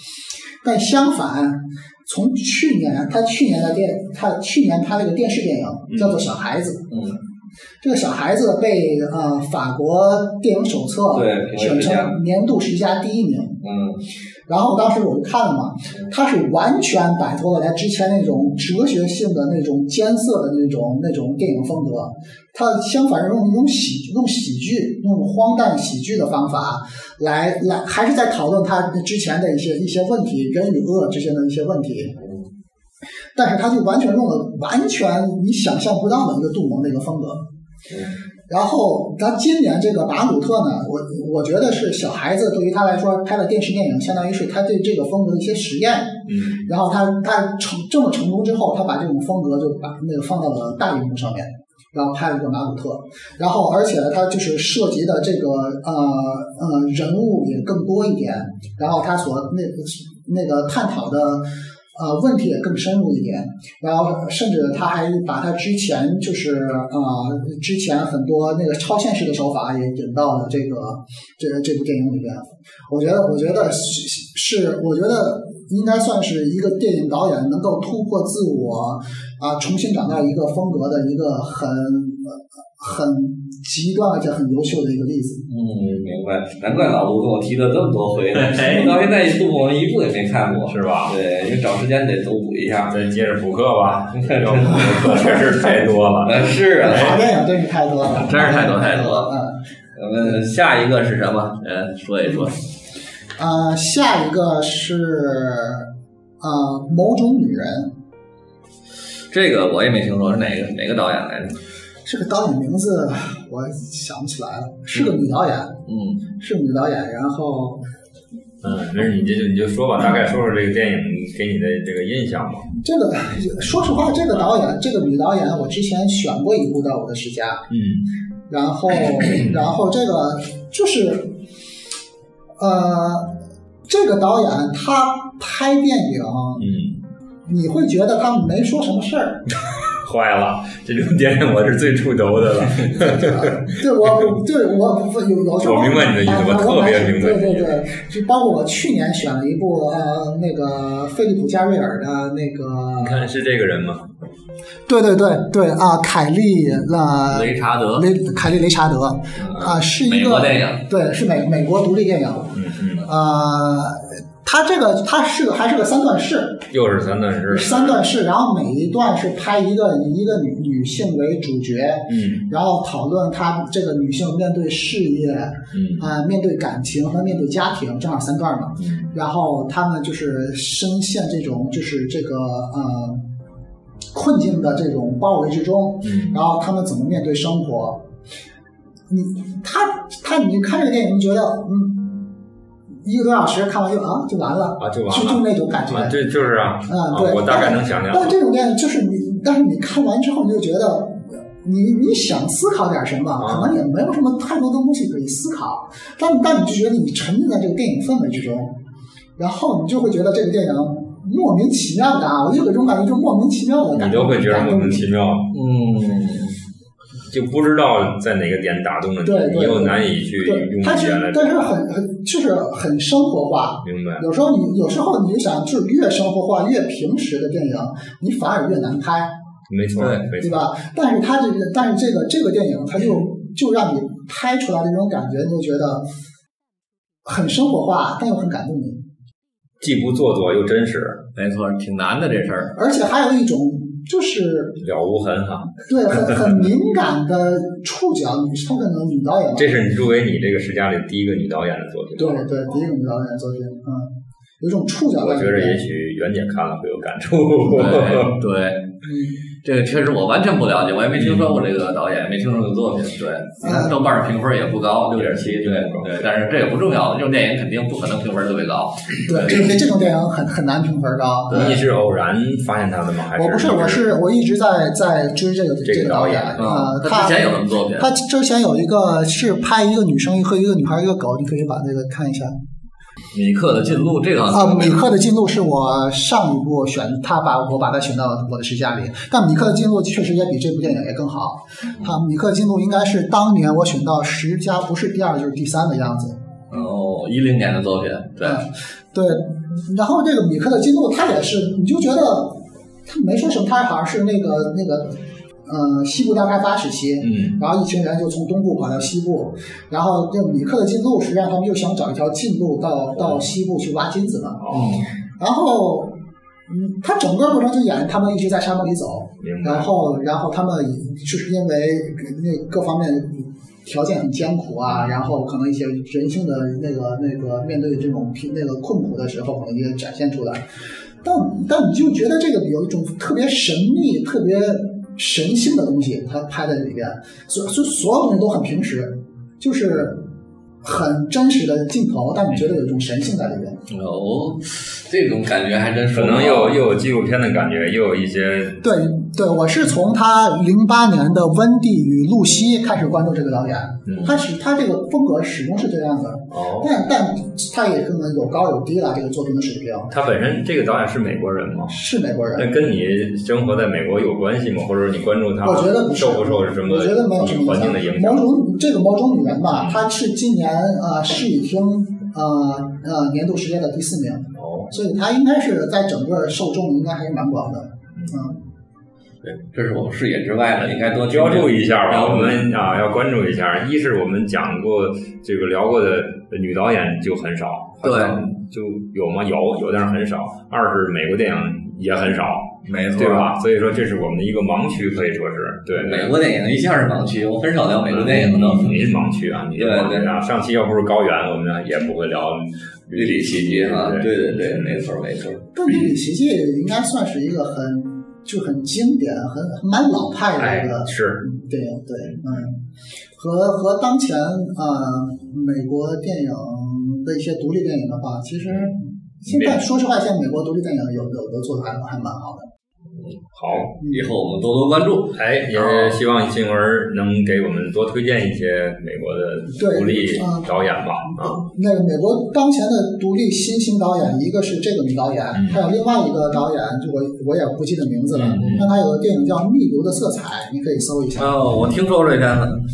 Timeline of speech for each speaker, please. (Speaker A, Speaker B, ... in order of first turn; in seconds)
Speaker A: 0.6-6.9, 7.8-13.6, 14.5-32.1, 33.3-37.4, 38.5-85.4, 95.0-95.4, 96.8-99.6, 103.4-105.9, 106.4-107.9, 112.0-115.7, 116.4-117.8, 122.8-127.7, 128.5-131.3, 132.6-133.3, 133.9-136.7, 137.4-139.5, 142.9-153.2, 154.9-166.7, 167.5-183.2, 184.1-188.0, 189.1-192.3, 193.0-196.2, 196.9-208.8, 209.4-215.1, 219.2-229.3, 230.4-236.1, 237.2-239.0, 242.7-244.8, 245.9-249.8, 252.2-255.8, 259.0-259.4, 263.6-263.9, 269.2-271.8, 273.4-282.6, 284.5-296.4, 298.4-314.6, 315.4-316.1, 316.7-330.6, 331.2-340.2, 340.8-343.8, 348.8-360.1, 361.9-362.7, 365.6-378.6, 405.7-412.8, 413.3-422.7, 424.0-424.3, 429.7-430.7, 431.2-441.6
Speaker B: 5.9-6.2, 46.3-46.6, 88.4-88.9, 90.7-91.2, 92.8-97.2, 118.6-122.7, 127.7-128.1, 129.2-129.6, 136.6-137.0, 139.9-144.2, 145.6-147.8, 153.0-154.1, 162.5-163.1, 166.7-168.0, 172.1-172.5, 175.7-176.1, 178.8-179.1, 186.0-186.4, 194.8-198.3, 203.4-203.8, 213.9-215.5, 217.3-221.7, 223.8-224.2, 229.7-230.6, 239.8-241.2, 244.8-246.5, 249.5-252.8, 255.2-258.4, 261.1-261.6, 265.1-266.3, 271.5-274.0, 275.8-276.8, 307.2-307.6, 313.1-313.4, 314.6-315.0, 319.4-319.9, 324.9-325.2, 346.1-348.8, 354.1-354.4, 356.5-356.9, 360.1-361.9, 362.5-368.5, 369.7-370.0, 374.5-374.9, 381.2-396.4, 398.1-405.0, 410.6-411.4, 412.2-412.6, 418.7-418.9, 419.4-419.8, 423.6-423.9, 425.3-431.6, 435.5-435.8, 438.3-438.9
Speaker C: 6.9-7.2, 11.1-12.1, 13.6-14.0, 32.2-32.5, 37.9-38.1, 85.5-93.0, 94.1-95.6, 96.2-97.2, 98.1-99.3, 99.9-102.5, 109.3-111.6, 114.9-115.2, 115.8-116.2, 157.3-158.1, 159.3-160.8, 215.5-216.6, 230.0-230.2, 241.3-242.7, 257.7-258.8, 259.6-269.8, 271.5-271.8, 276.6-278.1, 283.3-285.0, 296.7-298.6, 314.7-315.1, 343.9-346.8, 379.4-382.9, 388.0-388.4, 392.8-393.5, 395.9-399.1, 399.7-400.3, 403.1-405.6, 423.1-426.1, 441.4-442.8